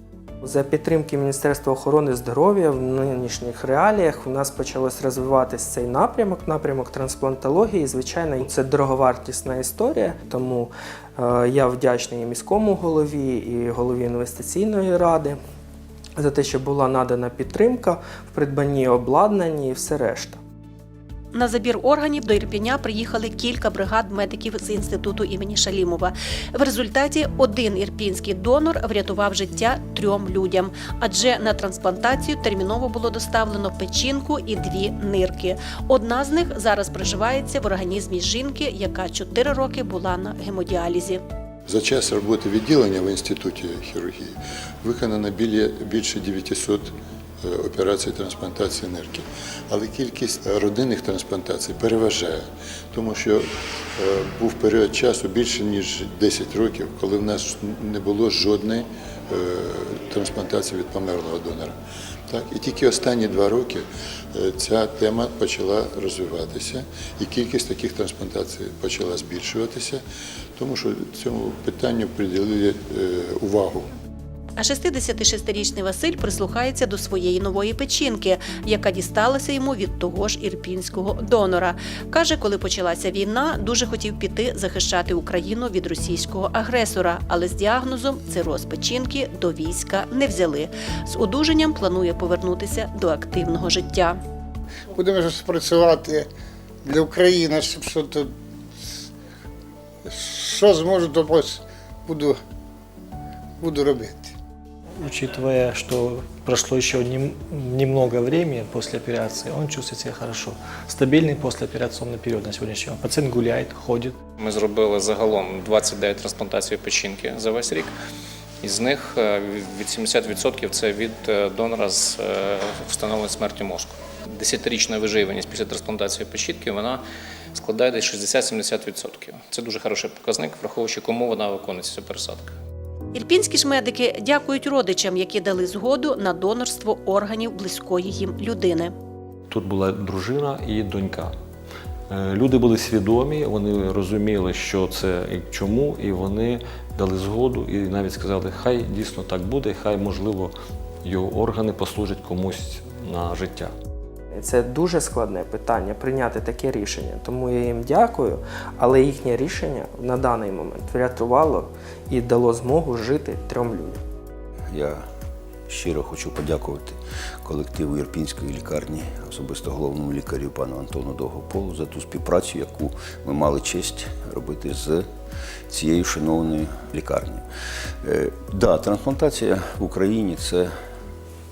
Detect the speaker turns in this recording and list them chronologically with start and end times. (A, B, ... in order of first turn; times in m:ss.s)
0:00.4-0:15.4 A
0:16.2-0:20.4 A
0:21.3-0:41.2 B
0:41.7-1:01.8 C
1:02.3-1:10.0 C
1:10.6-1:13.9 C
1:14.6-1:34.2 B
1:34.9-1:36.3 D
1:36.8-1:38.3 D
1:40.1-1:42.4 D
1:43.6-1:44.3 D
1:45.0-1:54.2 E
1:54.4-1:57.9 F
1:58.6-2:07.0 F
2:07.5-2:12.5 F
2:13.1-2:18.9 B
2:19.5-2:21.3 G
2:22.1-2:30.5 G
2:31.0-2:33.7 G
2:34.3-2:44.0 A
2:44.7-2:45.0 H
2:45.7-2:55.1 H
2:55.7-2:57.4 H
2:58.0-3:00.7 H